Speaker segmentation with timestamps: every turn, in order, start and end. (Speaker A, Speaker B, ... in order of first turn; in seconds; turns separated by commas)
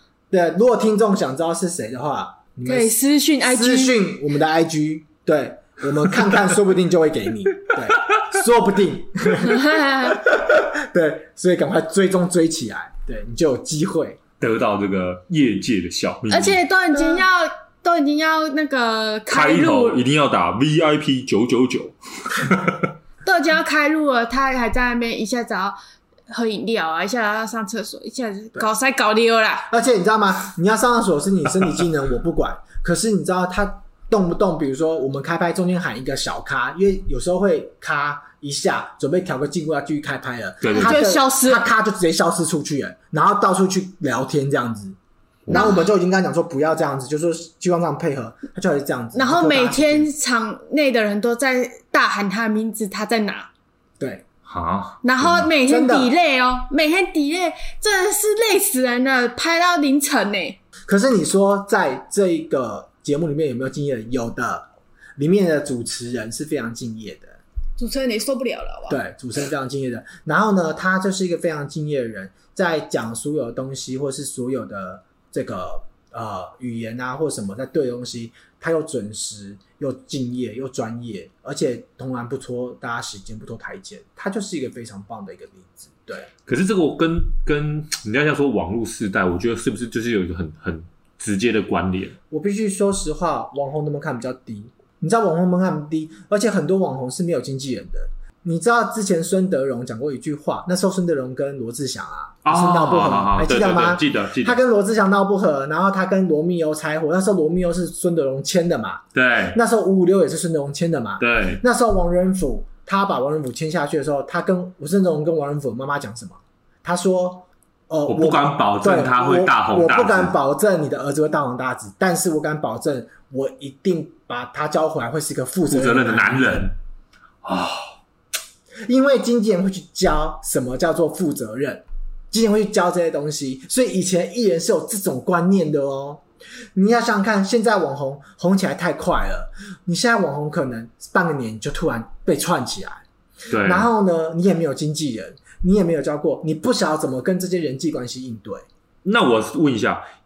Speaker A: 0.3-14.2, Speaker B: 2.6-4.1, Speaker B: 9.4-10.2, Speaker C: 14.4-16.6, Speaker B: 16.3-20.0, Speaker A: 16.9-17.2, Speaker C: 19.3-22.9, Speaker B: 23.2-25.8, Speaker B: 26.3-29.7, Speaker A: 29.7-45.0, Speaker C: 40.6-41.0, Speaker B: 40.7-41.6, Speaker C: 45.5-45.8, Speaker A: 45.5-50.1, Speaker B: 45.5-45.9, Speaker B: 49.1-53.5, Speaker A: 54.0-54.2, Speaker C: 54.5-55.5, Speaker B: 55.0-60.6, Speaker A: 55.6-56.1, Speaker A: 60.9-67.4, Speaker B: 67.8-69.0, Speaker A: 68.9-86.3, Speaker C: 86.5-92.2, Speaker A: 92.3-126.7, Speaker C: 102.4-104.6, Speaker C: 109.1-109.6, Speaker C: 111.2-111.6, Speaker C: 118.1-120.3, Speaker C: 125.7-126.8, Speaker C: 127.4-128.0, Speaker A: 128.8-136.2, Speaker A: 136.7-143.0, Speaker C: 143.5-143.9, Speaker A: 143.6-148.6, Speaker C: 149.0-150.0